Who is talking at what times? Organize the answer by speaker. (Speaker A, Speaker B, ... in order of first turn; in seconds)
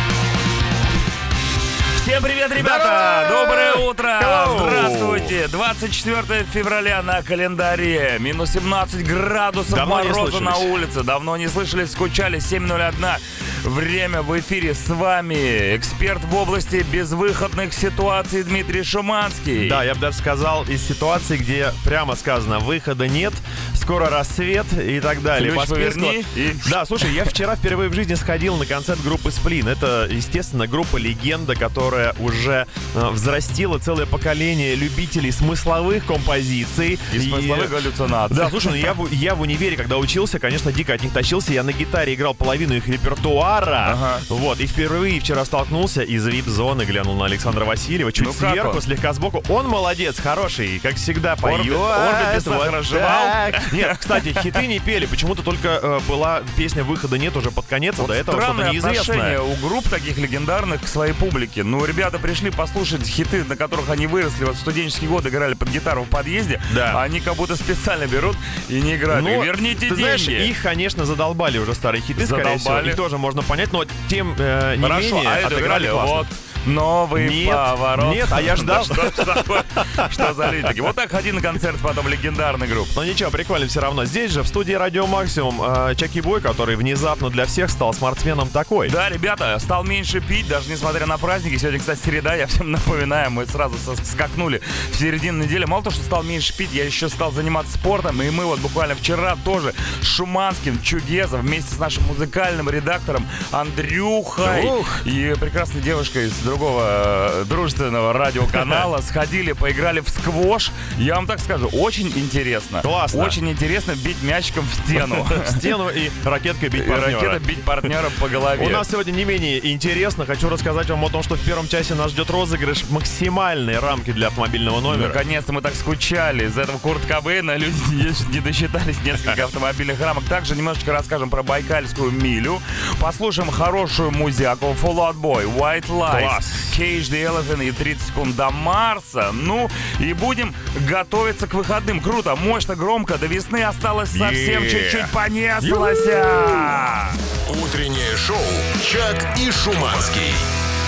Speaker A: 2.0-19.8, 25.4-27.4, 37.1-38.9, 43.8-44.2, 48.1-48.8, 51.4-54.5, 58.0-70.5, 72.2-73.0, 74.8-82.9, 88.8-115.7, 116.7-118.8, 124.9-147.2
Speaker B: 2.6-5.3, 9.7-10.7, 19.6-59.4, 66.7-67.0, 69.1-76.3, 77.2-80.7, 82.9-88.9, 104.4-105.0, 112.8-113.4, 114.9-117.9, 118.5-125.2, 136.1-136.8, 144.1-146.8
Speaker C: 147.4-150.4